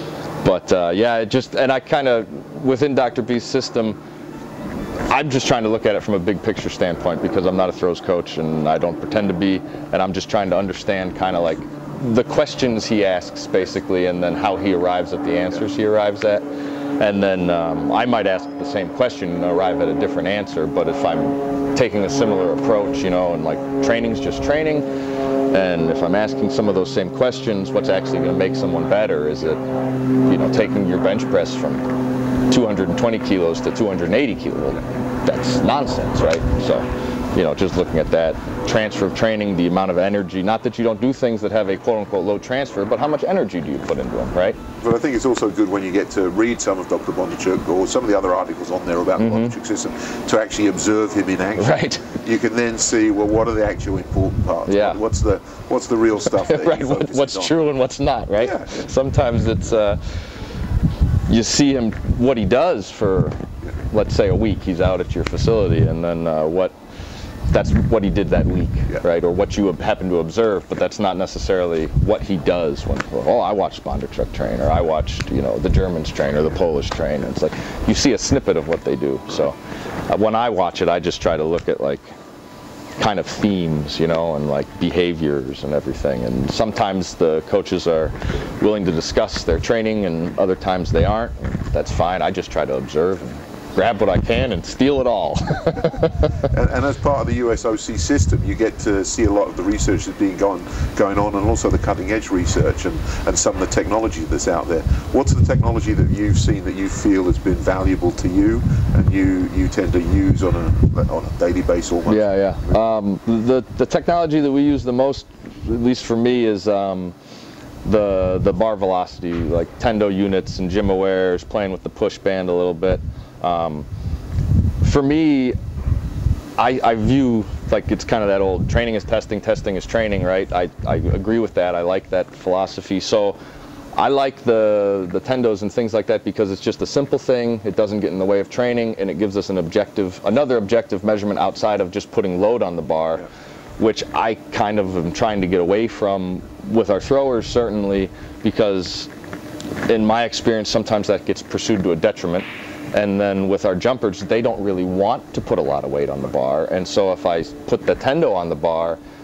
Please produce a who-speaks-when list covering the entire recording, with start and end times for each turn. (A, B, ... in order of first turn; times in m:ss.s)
0:00.4-0:04.0 A
0:05.1-0:16.4 A
0:17.0-0:24.9 A
0:25.5-0:29.6 A
0:30.2-0:31.9 A
0:32.5-0:44.6 A
0:44.8-0:57.6 B
0:49.2-0:49.6 A
0:51.6-0:52.2 A
0:54.7-0:55.0 A
0:56.3-1:00.0 A
0:58.4-0:58.9 B
1:01.3-1:03.4 A
1:03.9-1:06.7 A
1:07.5-1:19.6 A
1:20.1-1:22.1 A
1:23.0-1:36.5 A
1:36.5-1:52.8 B
1:52.1-1:57.2 A
1:57.8-2:03.9 A
2:04.8-2:05.6 A
2:06.6-2:13.4 A
2:14.0-2:23.3 A
2:23.8-2:29.1 A
2:29.9-2:39.0 A